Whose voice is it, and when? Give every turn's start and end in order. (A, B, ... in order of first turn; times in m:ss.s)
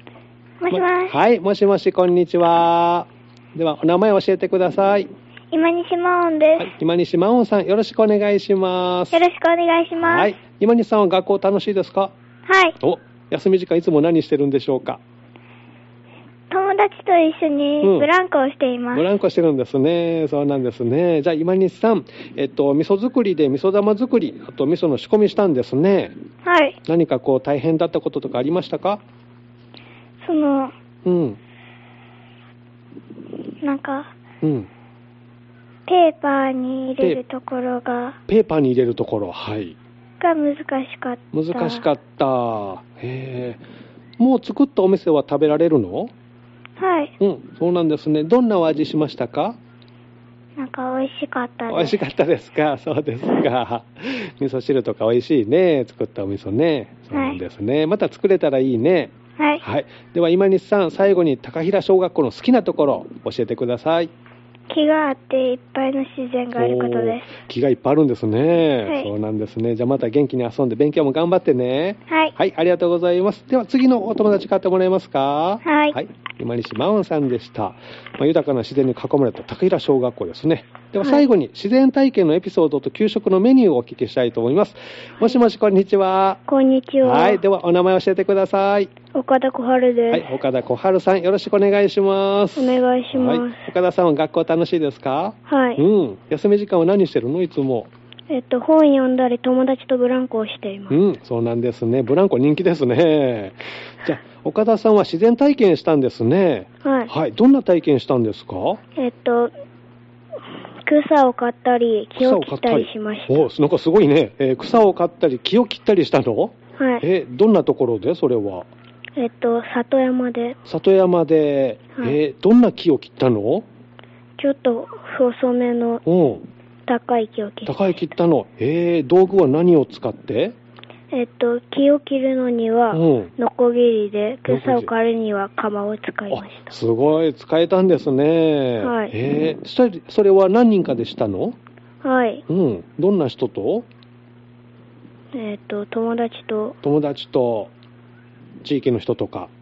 0:00.6-0:01.2 A
0:00.7-0:05.1 B
0:05.5-0:06.7 A
0:06.6-0:09.2 B
0:09.1-0:10.3 A
0:10.0-0:12.1 B
0:12.5-0:12.7 A
0:12.8-0:15.0 B
0:16.5-0:19.0 A
0:17.8-0:18.1 B
0:18.9-0:26.1 B
0:26.4-0:26.8 A
0:26.8-0:29.0 B
0:30.2-0:30.7 A
0:31.0-0:31.4 B
0:33.6-0:34.1 A
0:34.4-0:34.7 B
0:35.9-0:38.2 A
0:38.3-0:39.8 B
0:40.2-0:41.8 A
0:41.3-0:43.6 B
0:44.2-0:46.1 B
0:46.8-0:47.1 A
0:47.2-0:49.6 B
0:50.6-0:52.0 A
0:51.7-1:04.1 B
0:57.1-0:57.4 A
1:04.7-1:07.3 A
1:06.6-1:26.4 B
1:15.6-1:16.0 A
1:26.5-1:27.4 A
1:27.0-1:28.9 B
1:29.1-1:30.2 A
1:30.1-1:37.9 B
1:32.6-1:33.6 A
1:35.5-1:35.8 A
1:38.3-1:41.0 A
1:40.9-1:48.8 B
1:46.8-1:47.1 A
1:49.0-1:49.5 A
1:50.8-1:53.5 A
1:52.2-1:58.7 B
1:56.8-1:57.0 A
1:59.2-2:00.6 A
2:00.6-2:03.6 B
2:04.4-2:06.0 A
2:06.0-2:06.4 B
2:06.9-2:08.0 A
2:07.6-2:10.6 B
2:11.1-2:16.8 A
2:12.9-2:13.3 B
2:14.5-2:14.9 B
2:16.3-2:21.6 B
2:18.8-2:19.1 A
2:22.0-2:22.4 A
2:22.5-2:23.9 B
2:25.3-2:26.8 A
2:26.8-2:27.7 B
2:28.6-2:29.5 B